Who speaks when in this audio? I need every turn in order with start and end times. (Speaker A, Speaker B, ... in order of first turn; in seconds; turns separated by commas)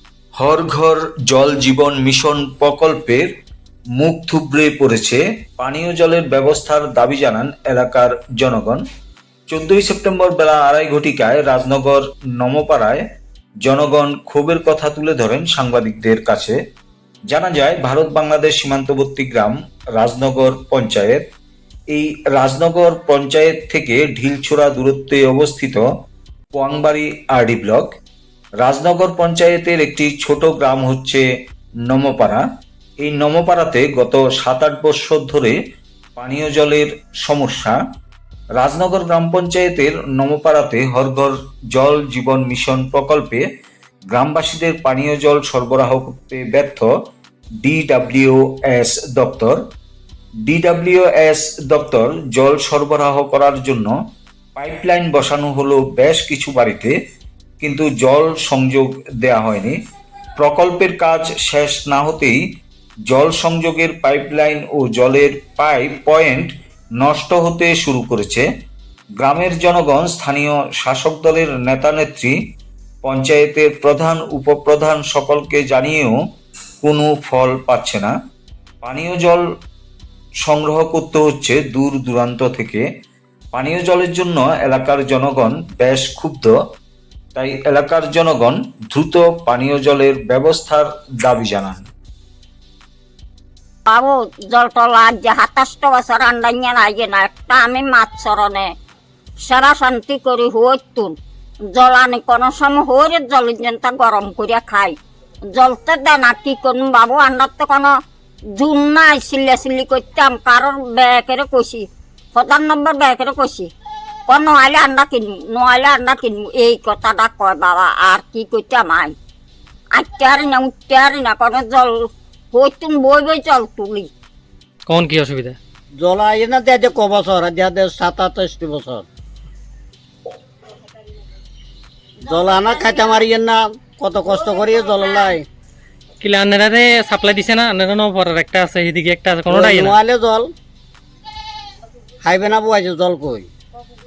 Speaker A: 0.4-3.3, Speaker A: 4.0-8.8, Speaker A: 9.5-13.0, Speaker A: 13.6-16.6, Speaker A: 17.3-21.2, Speaker A: 21.9-25.9, Speaker A: 26.5-27.9, Speaker A: 28.6-31.2, Speaker A: 31.9-32.4, Speaker A: 33.0-35.6, Speaker A: 36.2-37.8, Speaker A: 38.5-43.5, Speaker A: 44.1-46.9, Speaker A: 47.6-49.6, Speaker A: 50.5-53.9, Speaker A: 54.5-57.0, Speaker A: 57.6-59.8, Speaker A: 60.4-62.4, Speaker A: 63.1-68.5, Speaker A: 69.2-72.4, Speaker A: 73.0-76.2, Speaker A: 76.8-78.1, Speaker A: 78.8-79.4, Speaker A: 80.4-82.8, Speaker A: 83.5-86.5, Speaker A: 87.3-91.8, Speaker B: 93.9-98.7, Speaker B: 99.4-101.1, Speaker B: 101.7-104.9, Speaker B: 105.5-107.9, Speaker B: 108.5-113.7, Speaker B: 114.3-119.1, Speaker B: 120.0-124.1, Speaker C: 124.8-125.6, Speaker D: 126.0-129.1, Speaker D: 132.2-135.4, Speaker B: 132.3-133.2, Speaker B: 134.3-135.3, Speaker C: 136.2-139.9, Speaker D: 139.5-140.5, Speaker D: 142.2-143.5